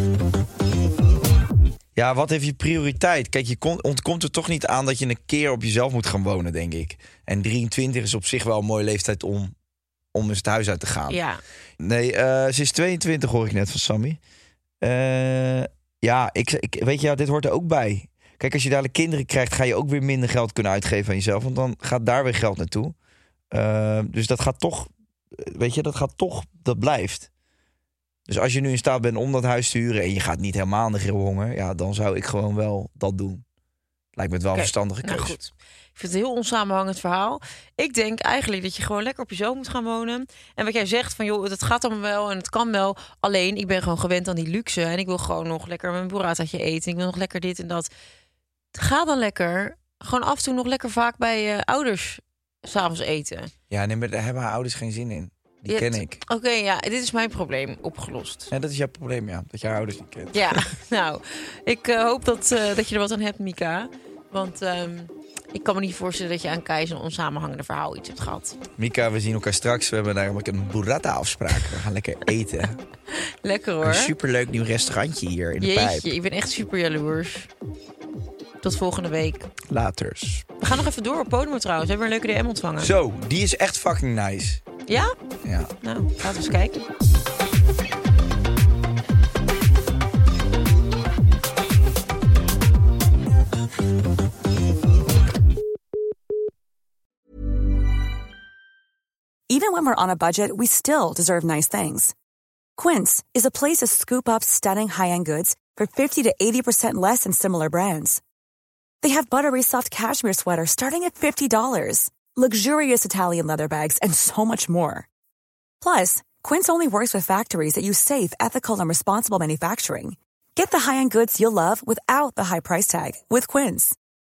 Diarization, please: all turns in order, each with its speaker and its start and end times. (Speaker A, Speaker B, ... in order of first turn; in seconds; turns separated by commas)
Speaker A: 1.9-9.5, Speaker A: 10.1-11.2, Speaker B: 11.1-11.4, Speaker A: 11.8-14.2, Speaker A: 14.8-22.9, Speaker A: 23.5-27.3, Speaker A: 28.3-33.4, Speaker A: 34.1-35.4, Speaker B: 34.5-47.9, Speaker B: 48.7-53.5, Speaker A: 53.7-56.2, Speaker B: 55.7-58.5, Speaker A: 58.5-60.6, Speaker B: 60.3-68.6, Speaker A: 68.8-72.8, Speaker B: 73.1-74.1, Speaker A: 73.8-76.1, Speaker B: 75.6-77.5, Speaker B: 78.6-79.5, Speaker A: 79.7-80.5, Speaker B: 80.6-82.9, Speaker A: 82.8-84.6, Speaker B: 84.9-85.1, Speaker A: 85.4-85.7, Speaker B: 85.8-86.8, Speaker C: 99.5-102.1, Speaker C: 102.8-108.2, Speaker C: 109.0-115.1, Speaker C: 115.8-124.0